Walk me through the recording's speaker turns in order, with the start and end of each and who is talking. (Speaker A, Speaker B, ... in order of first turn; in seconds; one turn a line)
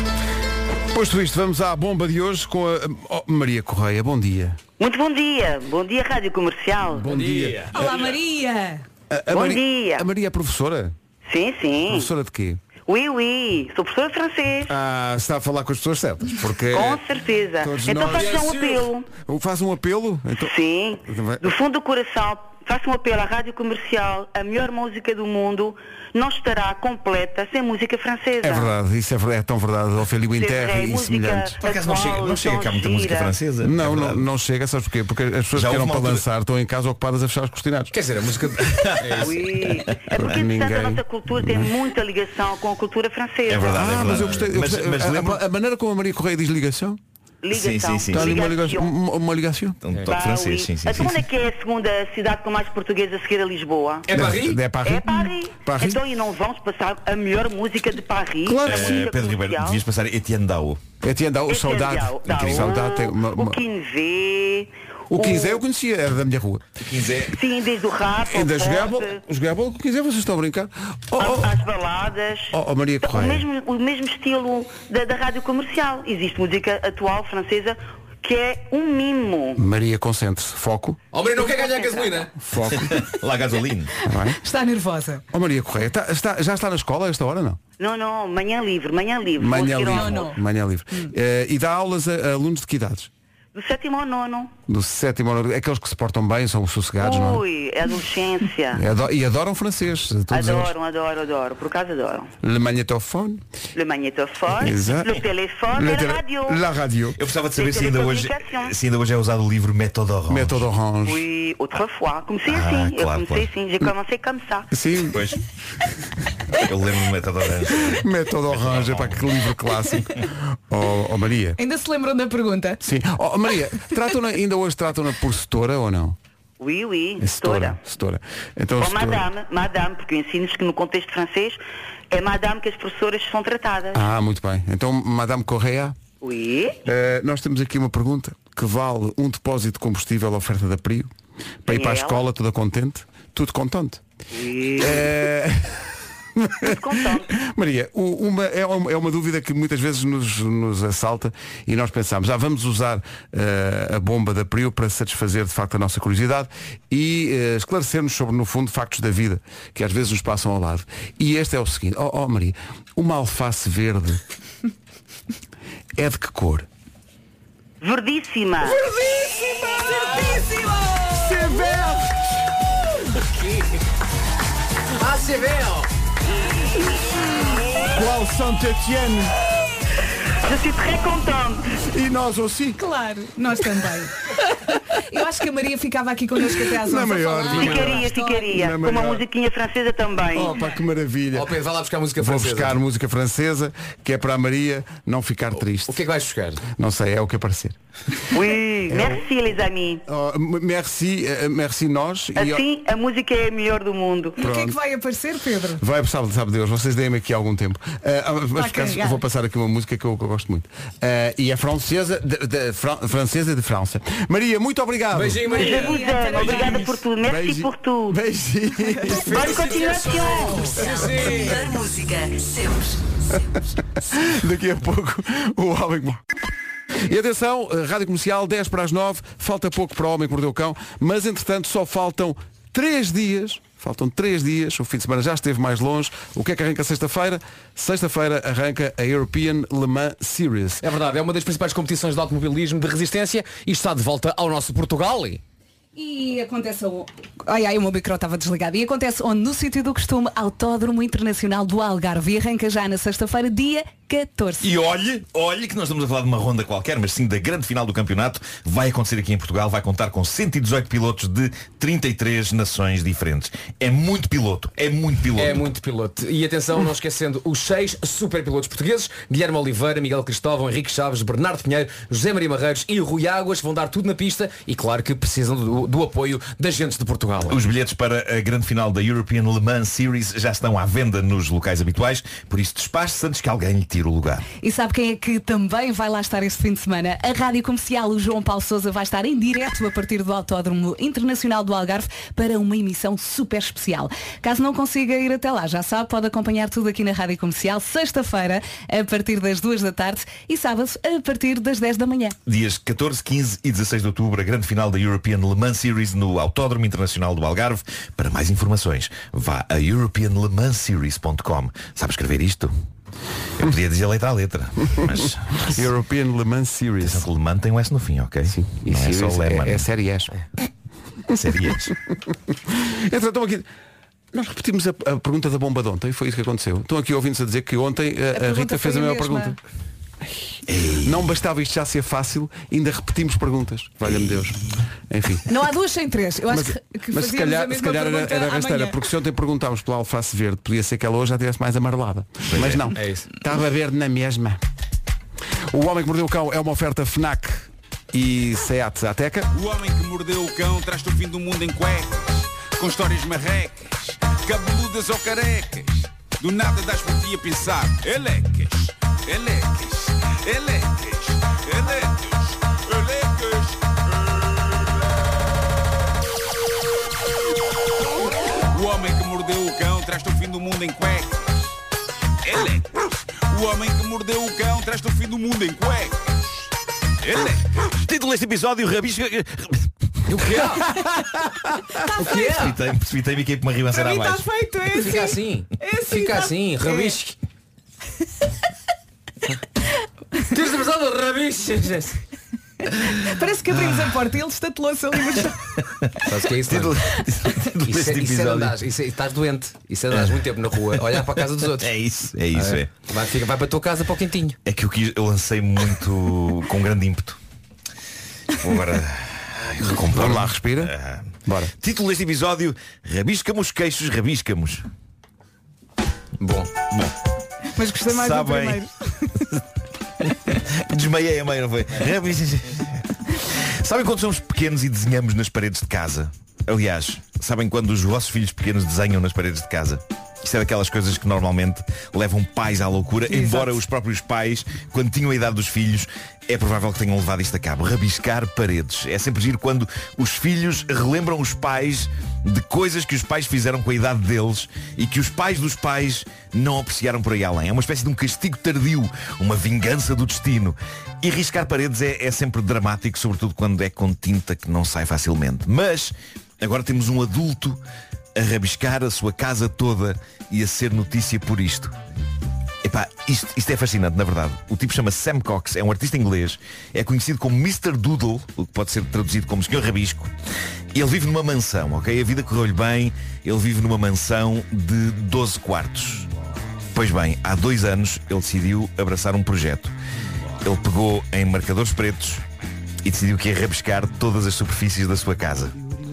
Speaker A: 0.9-4.6
Speaker B: 4.8-7.0
Speaker A: 6.9-8.0
Speaker C: 7.1-8.0
Speaker D: 7.7-8.8
Speaker A: 9.1-10.9
Speaker B: 9.3-10.1
Speaker B: 11.2-12.1
Speaker A: 11.9-12.6
Speaker B: 12.9-14.7
Speaker A: 14.7-17.0
Speaker B: 16.7-19.1
Speaker A: 17.6-18.5
Speaker A: 19.2-20.5
Speaker B: 20.4-28.7
Speaker A: 21.1-21.5
Speaker A: 28.4-31.6
Speaker B: 30.4-33.3
Speaker E: 31.6-34.3
Speaker A: 33.6-37.9
Speaker E: 35.5-36.2
Speaker C: 37.9-39.4
Speaker E: 38.6-39.2
Speaker B: 39.2-43.9
Speaker E: 39.9-40.3
Speaker A: 40.1-41.7
Speaker E: 43.5-45.4
Speaker A: 43.8-47.0
Speaker B: 47.4-48.9
Speaker E: 47.5-48.4
Speaker A: 48.1-49.8
Speaker E: 49.8-51.1
Speaker B: 50.1-54.0
Speaker C: 54.1-54.6
Speaker A: 54.1-56.0
Speaker B: 54.8-59.8
Speaker A: 58.4-59.0
Speaker E: 58.6-60.8
Speaker A: 61.0-63.6
Speaker B: 61.5-65.6
Speaker A: 65.1-66.6
Speaker E: 66.8-67.3
Speaker B: 67.3-69.2
Speaker A: 68.2-71.6
Speaker B: 71.2-72.5
Speaker A: 72.5-73.4
Speaker B: 73.0-79.6
Speaker A: 79.6-81.0
Speaker C: 81.1-82.3
Speaker D: 81.6-82.0
Speaker A: 82.4-83.0
Speaker E: 82.7-84.0
Speaker A: 84.0-84.4
Speaker D: 84.4-85.2
Speaker A: 85.3-87.6
Speaker B: 87.8-90.1
Speaker A: 89.4-93.1
Speaker D: 89.9-90.4
Speaker B: 93.5-94.5
Speaker A: 94.7-97.4
Speaker B: 97.0-98.8
Speaker A: 98.7-100.7
Speaker B: 100.3-102.3
Speaker A: 102.4-103.4
Speaker B: 103.8-106.6
Speaker A: 104.5-105.2
Speaker A: 105.7-107.2
Speaker E: 107.2-110.7
Speaker B: 107.5-108.7
Speaker A: 110.3-111.2
Speaker B: 111.0-114.7
Speaker E: 112.5-113.5
Speaker A: 114.7-115.2
Speaker E: 115.1-115.4
Speaker E: 116.6-119.2
Speaker A: 117.9-121.6
Speaker D: 121.6-122.8
Speaker A: 122.8-126.2
Speaker B: 126.6-127.8
Speaker A: 127.2-129.3
Speaker B: 128.8-131.6
Speaker B: 132.1-134.0
Speaker A: 133.9-136.0
Speaker B: 136.2-136.8
Speaker A: 136.8-141.1
Speaker A: 141.6-144.0
Speaker B: 141.7-142.2
Speaker B: 144.3-144.9
Speaker A: 144.8-145.8
Speaker A: 146.3-164.2
Speaker B: 146.7-147.2
Speaker A: 166.0-166.7
Speaker B: 167.8-168.8
Speaker A: 169.5-170.2
Speaker A: 171.1-172.1
Speaker C: 175.0-175.9
Speaker A: 177.8-179.3
Speaker B: 180.4-181.6
Speaker A: 181.8-182.8
Speaker D: 182.8-184.1
Speaker D: 185.0-188.5
Speaker A: 186.8-189.2
Speaker B: 187.6-190.5
Speaker A: 190.3-191.5
Speaker C: 191.3-192.8
Speaker A: 192.2-196.0
Speaker C: 195.9-196.6
Speaker A: 196.7-197.8
Speaker B: 198.3-200.0
Speaker A: 198.9-199.2
Speaker A: 200.1-202.6
Speaker B: 202.4-204.4
Speaker D: 204.4-205.8
Speaker A: 204.4-204.8
Speaker A: 205.8-215.6
Speaker D: 208.5-209.2
Speaker C: 215.1-216.8
Speaker D: 215.5-216.9
Speaker B: 215.7-218.1
Speaker A: 217.2-219.5
Speaker C: 219.2-221.7
Speaker B: 219.3-220.4
Speaker F: 220.7-223.1
Speaker A: 224.1-226.2
Speaker A: 227.0-240.8
Speaker C: 240.8-245.4
Speaker D: 245.9-254.7
Speaker E: 254.6-265.7
Speaker C: 265.3-277.6
Speaker E: 277.5-284.4
Speaker D: 284.6-302.4
Speaker E: 302.4-312.7
Speaker E: 313.6-315.9
Speaker A: 315.7-317.3
Speaker E: 317.0-319.9
Speaker A: 318.5-320.3
Speaker E: 321.3-321.9
Speaker A: 322.7-323.7
Speaker A: 324.3-329.6
Speaker D: 328.3-329.6
Speaker E: 330.7-331.2
Speaker A: 331.0-334.6
Speaker A: 335.1-335.4
Speaker D: 335.5-339.0
Speaker A: 336.5-344.6
Speaker E: 342.5-342.9
Speaker C: 342.9-343.3
Speaker A: 345.7-349.5
Speaker G: 349.5-364.5
Speaker G: 368.7-371.7
Speaker G: 372.4-376.6
Speaker G: 377.2-377.6
Speaker E: 377.9-379.9
Speaker C: 380.3-380.9
Speaker D: 382.2-382.6
Speaker C: 382.2-382.8
Speaker E: 382.3-384.4
Speaker D: 383.9-387.1
Speaker C: 384.9-387.3
Speaker C: 390.5-392.2
Speaker D: 392.9-395.6
Speaker E: 393.7-394.2
Speaker C: 396.2-397.1
Speaker E: 396.6-398.7
Speaker C: 397.8-401.9
Speaker E: 400.1-400.4
Speaker E: 400.9-402.9
Speaker C: 402.5-404.6
Speaker E: 404.6-407.4
Speaker E: 408.5-414.8
Speaker A: 410.1-410.9
Speaker A: 411.4-411.7
Speaker C: 416.4-416.7
Speaker E: 416.9-417.1
Speaker D: 417.8-419.4
Speaker E: 418.1-418.8
Speaker E: 420.8-423.0
Speaker E: 423.8-457.8
Speaker D: 433.3-433.8
Speaker E: 458.4-461.9
Speaker E: 462.8-470.3
Speaker E: 470.9-476.3
Speaker E: 476.9-479.9
Speaker E: 480.6-482.4
Speaker E: 483.0-485.7